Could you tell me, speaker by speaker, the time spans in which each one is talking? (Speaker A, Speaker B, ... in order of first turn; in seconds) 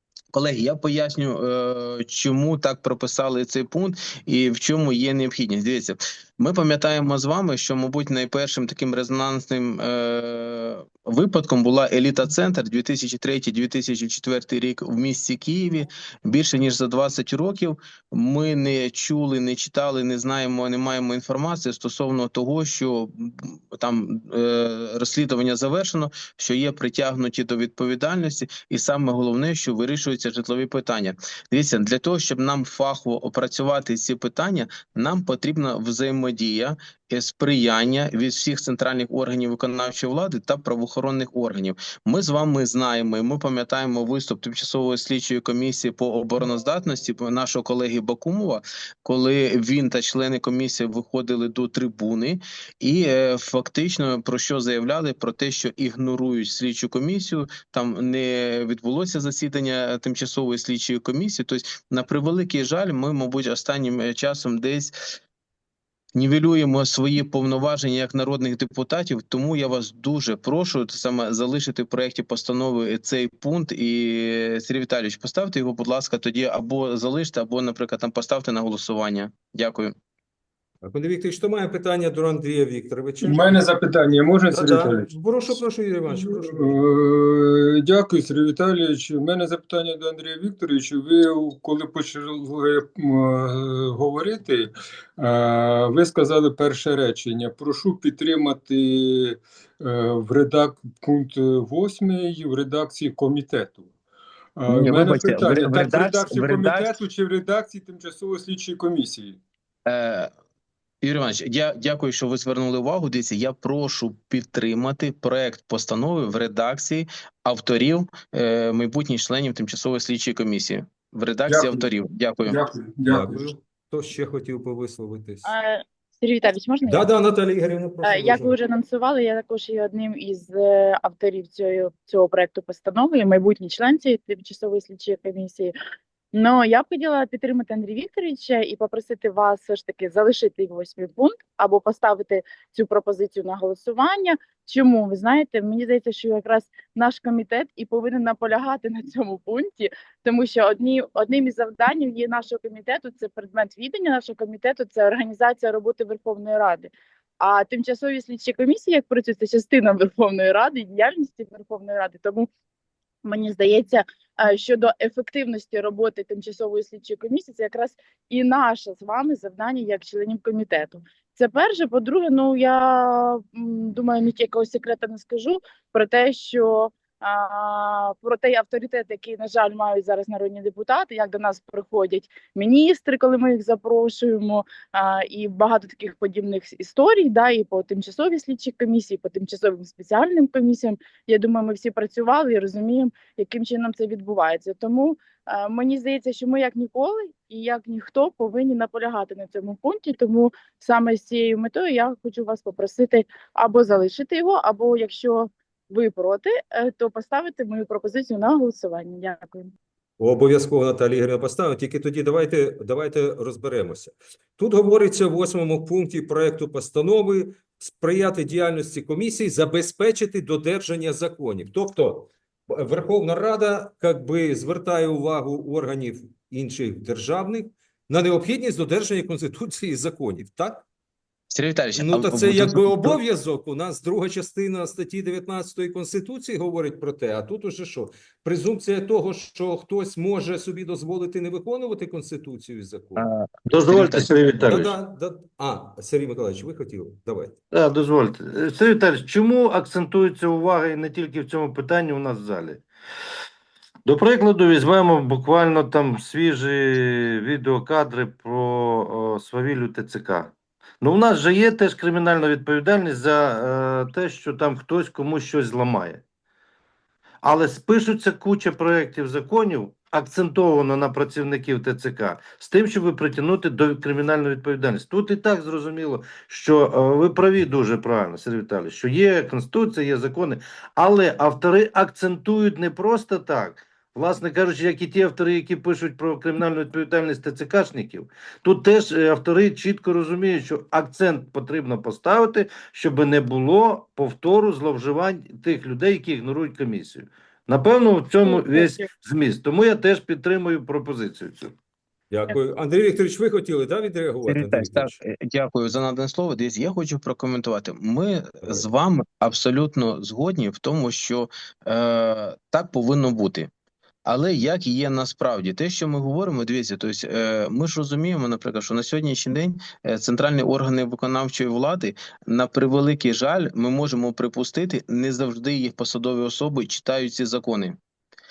Speaker A: 0.3-64.9, 66.1-79.9, 104.7-106.9, 109.8-110.3, 111.0-122.6, 231.5-233.2, 243.2-244.3, 304.5-313.7, 314.2-328.0
Speaker B: 80.8-83.6, 84.5-86.8, 123.0-125.5, 126.9-128.5, 210.2-230.8, 232.0-243.2, 244.7-247.6, 302.3-305.2
Speaker C: 83.2-85.1, 86.1-103.9, 104.5-109.4, 121.5-121.9, 122.4-123.5
Speaker D: 125.4-127.1, 128.0-135.7, 136.3-162.5, 163.2-209.7, 298.4-299.1
Speaker E: 243.7-244.9, 247.7-252.8, 254.0-266.2, 267.4-301.7